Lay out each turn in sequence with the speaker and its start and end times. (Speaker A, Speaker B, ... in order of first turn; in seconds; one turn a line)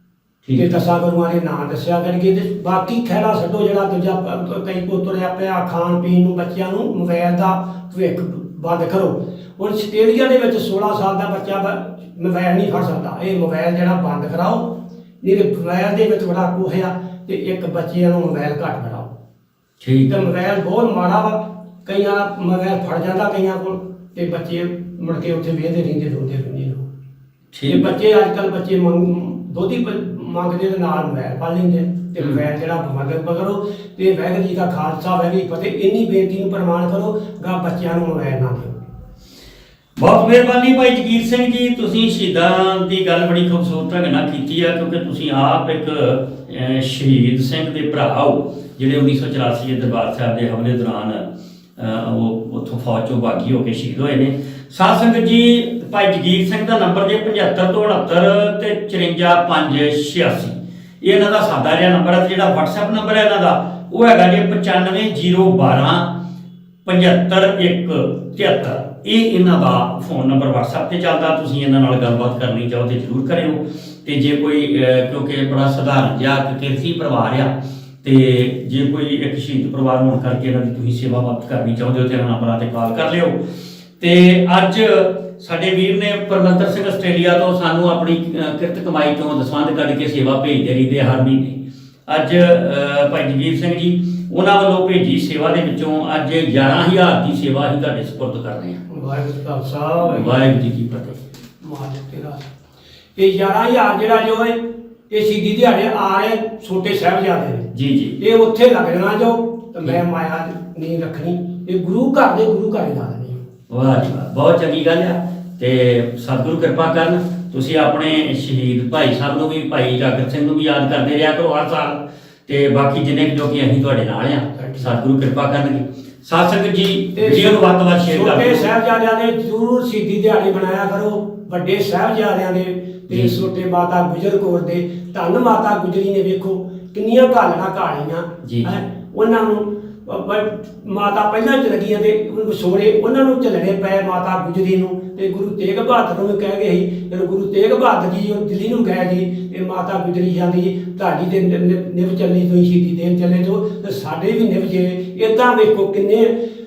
Speaker A: 0.4-0.8
Speaker B: 0.5-19.1
Speaker A: 19.8-20.2
Speaker B: 20.1-26.8
Speaker A: 27.5-27.9
Speaker B: 27.6-38.8
Speaker A: 40.0-51.3
Speaker A: 51.8-66.2
Speaker A: 66.8-83.4
Speaker A: 84.0-98.8
Speaker B: 98.9-100.6
Speaker A: 100.0-101.2
Speaker B: 101.6-102.4
Speaker B: 103.2-107.7
Speaker A: 107.7-108.2
Speaker B: 108.2-113.4
Speaker A: 113.7-128.7
Speaker B: 124.5-125.0
Speaker B: 127.2-156.3
Speaker A: 133.1-133.3
Speaker A: 138.4-138.8